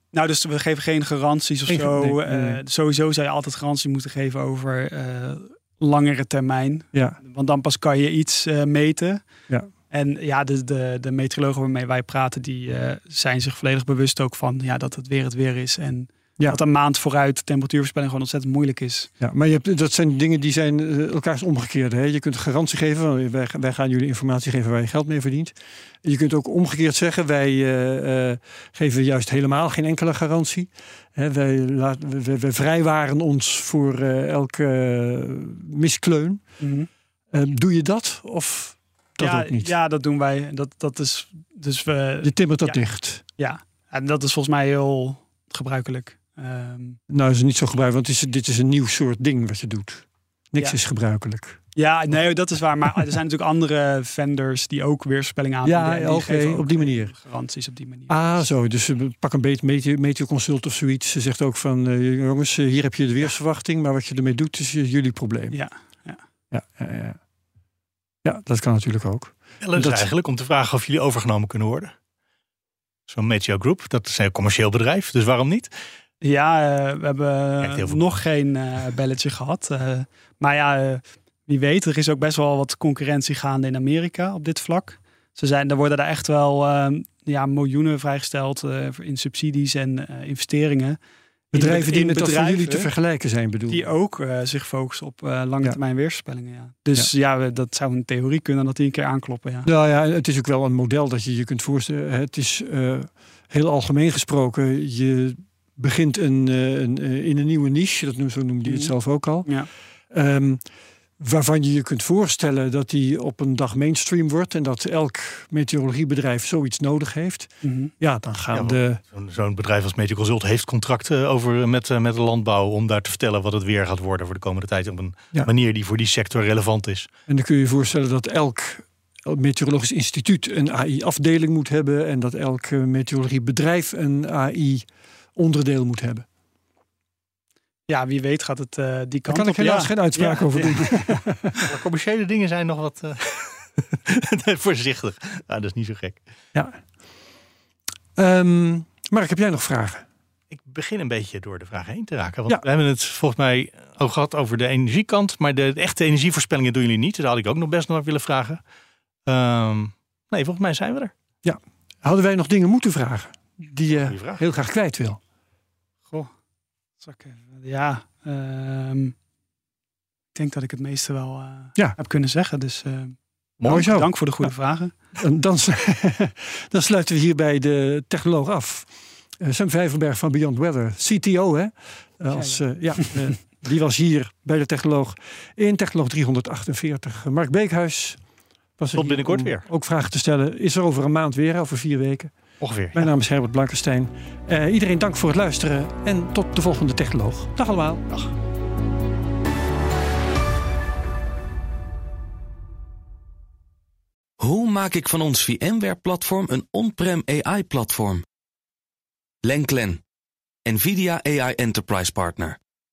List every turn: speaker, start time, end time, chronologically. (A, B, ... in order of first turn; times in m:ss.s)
0:00.1-0:09.2 A
0:01.7-0:02.6 B
0:06.9-0:07.2 B
0:09.9-0:19.1 A
0:19.2-0:36.4 B
0:36.6-0:36.9 A
0:37.3-0:39.7 B
0:39.2-0:47.0 A
0:42.2-0:43.2 B
0:47.1-0:51.6 B
0:51.7-0:58.4 A
0:55.6-0:57.1 B
0:58.1-1:05.6 B
1:05.5-1:06.2 A
1:06.5-1:07.2 B
1:08.2-1:10.1 B
1:09.6-1:11.9 C
1:13.1-1:15.7 C
1:16.2-1:31.0 A
1:17.6-1:18.1 C
1:31.5-1:32.9 A
1:31.5-1:33.8 B
1:33.7-1:39.7 A
1:39.6-1:50.6 B
1:48.6-1:48.9 A
1:51.2-1:59.0 B
1:57.6-1:57.9 A
1:58.5-2:07.1 C
2:07.3-2:16.2 B
2:17.9-2:21.2 A
2:19.3-2:21.5 B
2:21.6-2:26.2 C
2:26.5-2:26.8 B
2:28.2-2:30.0 B
2:30.5-2:38.6 C
2:39.2-2:41.1 C
2:41.4-2:45.2 B
2:43.9-2:44.4 C
2:47.0-2:49.1 A
2:50.3-2:54.9 A
2:53.6-2:53.9 C
2:53.6-2:54.5 B
2:55.2-3:08.2 B
3:02.3-3:03.3 A
3:08.8-3:12.3 B
3:08.9-3:09.7 C
3:12.6-3:13.1 C
3:12.9-3:18.0 B
3:18.1-3:18.3 C
3:24.4-3:28.2 D
3:29.4-3:30.0 D
3:30.6-3:32.6 D